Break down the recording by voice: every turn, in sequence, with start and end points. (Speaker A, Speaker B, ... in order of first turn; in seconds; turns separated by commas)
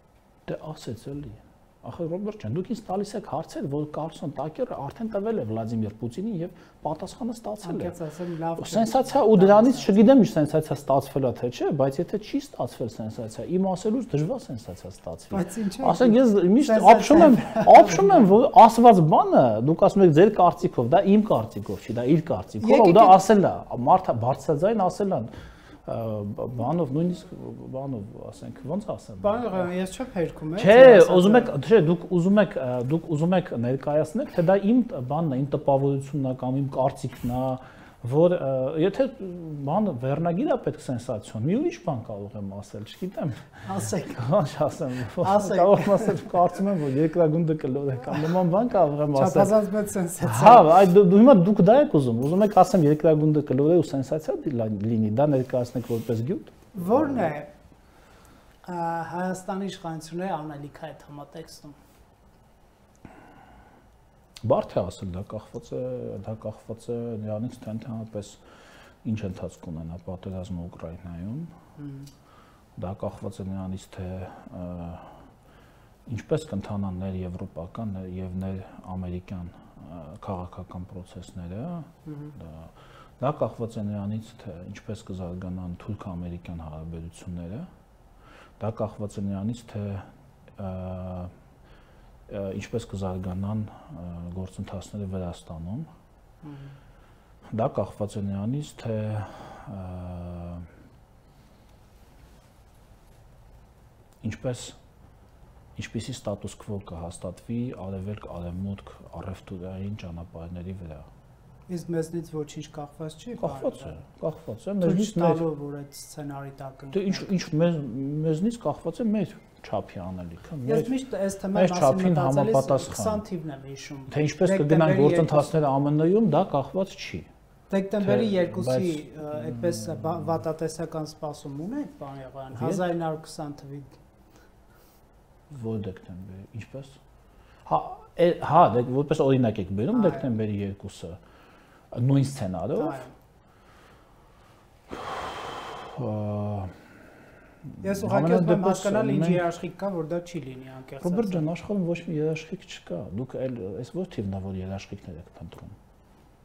Speaker A: 0.5-7.9, Speaker B: 7.6-10.0, Speaker A: 8.6-25.3, Speaker B: 15.3-18.3, Speaker B: 22.6-23.2, Speaker A: 25.8-29.7, Speaker B: 29.2-31.5, Speaker A: 30.6-49.5, Speaker B: 43.6-44.2, Speaker B: 45.2-46.1, Speaker B: 49.1-50.7, Speaker A: 50.2-57.3, Speaker B: 56.7-57.5, Speaker B: 58.6-61.8, Speaker A: 64.4-68.4, Speaker A: 69.0-71.5, Speaker B: 71.8-72.1, Speaker A: 72.8-75.2, Speaker A: 76.0-87.7, Speaker B: 82.1-82.3, Speaker A: 88.6-91.3, Speaker A: 92.3-95.9, Speaker B: 96.4-96.7, Speaker A: 97.5-100.7, Speaker A: 104.2-104.8, Speaker A: 105.8-111.1, Speaker B: 111.7-114.0, Speaker A: 113.4-115.4, Speaker B: 114.8-117.3, Speaker A: 116.9-120.9, Speaker B: 120.6-125.5, Speaker A: 121.5-123.2, Speaker A: 124.1-127.3, Speaker B: 127.7-134.0, Speaker A: 128.0-130.4, Speaker A: 132.5-132.9, Speaker A: 135.5-137.0, Speaker A: 137.7-141.2, Speaker B: 139.9-140.3, Speaker A: 141.9-143.1, Speaker B: 142.8-143.1, Speaker A: 144.9-146.9, Speaker A: 147.7-149.5, Speaker B: 147.8-151.4, Speaker A: 151.0-155.8